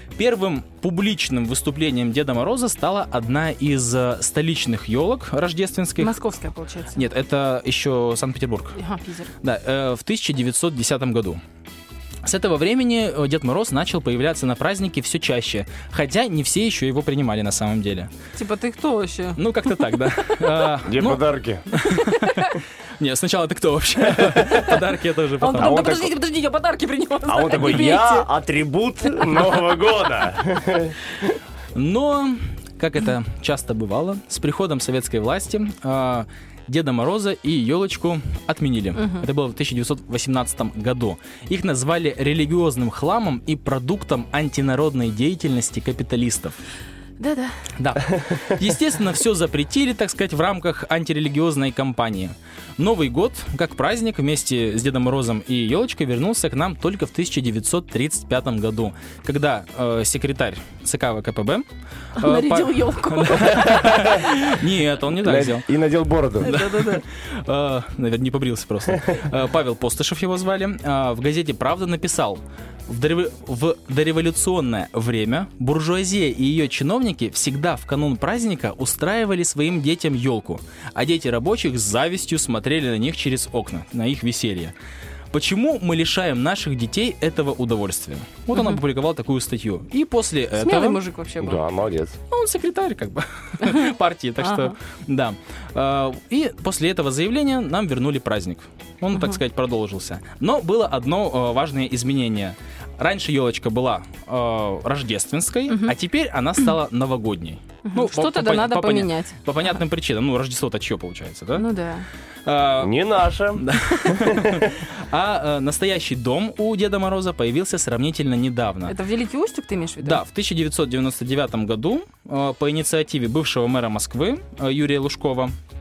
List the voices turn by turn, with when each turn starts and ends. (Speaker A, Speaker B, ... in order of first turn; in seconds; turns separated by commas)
Speaker A: 0.1-6.1, Speaker B: 6.0-7.0, Speaker A: 6.9-8.8, Speaker B: 8.8-9.3, Speaker A: 9.4-11.4, Speaker A: 12.2-18.1, Speaker B: 18.3-20.4, Speaker A: 19.4-26.1, Speaker C: 20.9-21.6, Speaker B: 21.8-22.6, Speaker B: 24.3-24.8, Speaker B: 25.4-28.3, Speaker C: 25.6-26.1, Speaker C: 27.3-30.9, Speaker A: 31.7-46.6, Speaker B: 39.0-39.2, Speaker B: 47.2-47.5, Speaker A: 47.8-61.6, Speaker B: 62.1-64.1, Speaker A: 62.2-65.7, Speaker C: 65.2-66.5, Speaker B: 66.4-67.0, Speaker A: 66.4-84.7, Speaker A: 85.3-91.0, Speaker B: 88.5-88.8, Speaker B: 90.6-91.6, Speaker C: 91.4-92.1, Speaker A: 92.3-111.6, Speaker B: 93.6-93.9, Speaker B: 94.4-94.7, Speaker B: 107.9-109.4, Speaker B: 111.5-112.0, Speaker A: 112.5-113.0, Speaker C: 112.8-113.6, Speaker A: 113.5-118.9, Speaker C: 114.2-114.6, Speaker B: 118.8-120.2, Speaker A: 120.0-125.5